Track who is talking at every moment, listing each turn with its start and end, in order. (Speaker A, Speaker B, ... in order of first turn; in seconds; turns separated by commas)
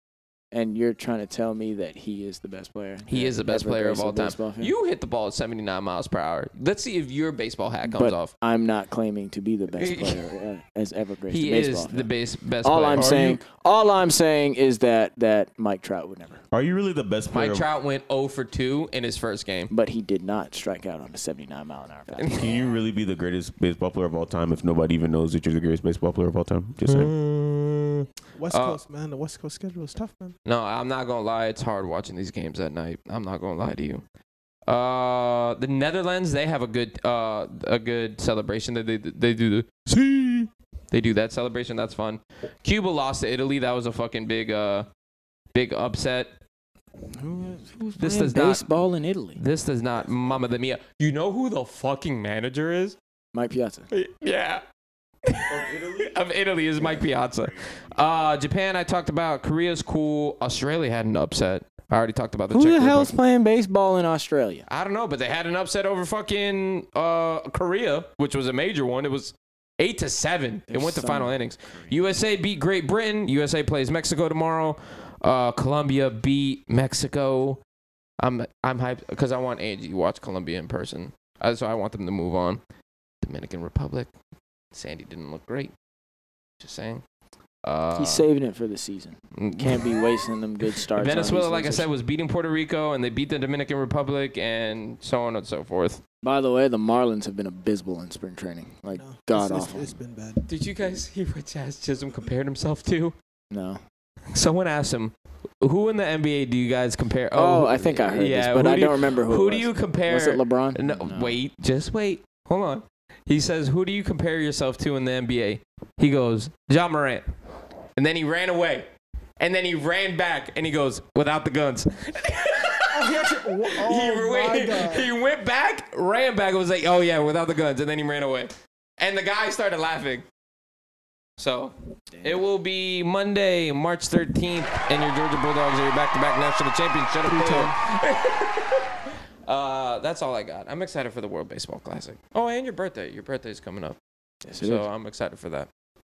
Speaker A: 0.5-4.7, Speaker B: 3.1-8.3, Speaker A: 7.8-12.1, Speaker B: 9.8-10.3, Speaker B: 11.3-13.1, Speaker A: 12.6-16.4, Speaker C: 12.9-13.4, Speaker C: 16.5-17.7, Speaker B: 17.3-19.7, Speaker A: 19.7-22.4, Speaker B: 22.1-22.6, Speaker C: 22.3-27.1, Speaker B: 26.9-28.8, Speaker D: 28.4-30.3, Speaker B: 30.4-34.0, Speaker B: 34.7-44.9, Speaker B: 45.5-46.3, Speaker A: 47.1-49.4, Speaker B: 48.0-48.7, Speaker B: 49.4-53.0, Speaker A: 53.3-53.9, Speaker B: 53.9-54.6, Speaker B: 55.2-63.1, Speaker C: 55.5-56.2, Speaker C: 56.8-58.3, Speaker A: 62.5-64.6, Speaker B: 64.7-77.6, Speaker A: 70.7-72.0, Speaker B: 78.2-82.6, Speaker B: 83.2-84.1, Speaker B: 84.7-85.7, Speaker B: 86.6-87.0, Speaker B: 87.6-88.3, Speaker A: 87.9-91.9, Speaker B: 89.3-90.2, Speaker B: 90.9-96.0, Speaker A: 96.2-100.0, Speaker D: 98.9-100.4, Speaker B: 100.5-103.1, Speaker A: 103.5-103.8, Speaker B: 104.3-117.2, Speaker A: 107.3-111.3, Speaker B: 118.0-118.8, Speaker B: 119.4-130.2, Speaker D: 122.9-125.1, Speaker B: 131.4-144.0, Speaker A: 132.1-132.4, Speaker D: 137.2-137.7, Speaker A: 144.4-144.9, Speaker B: 144.6-145.7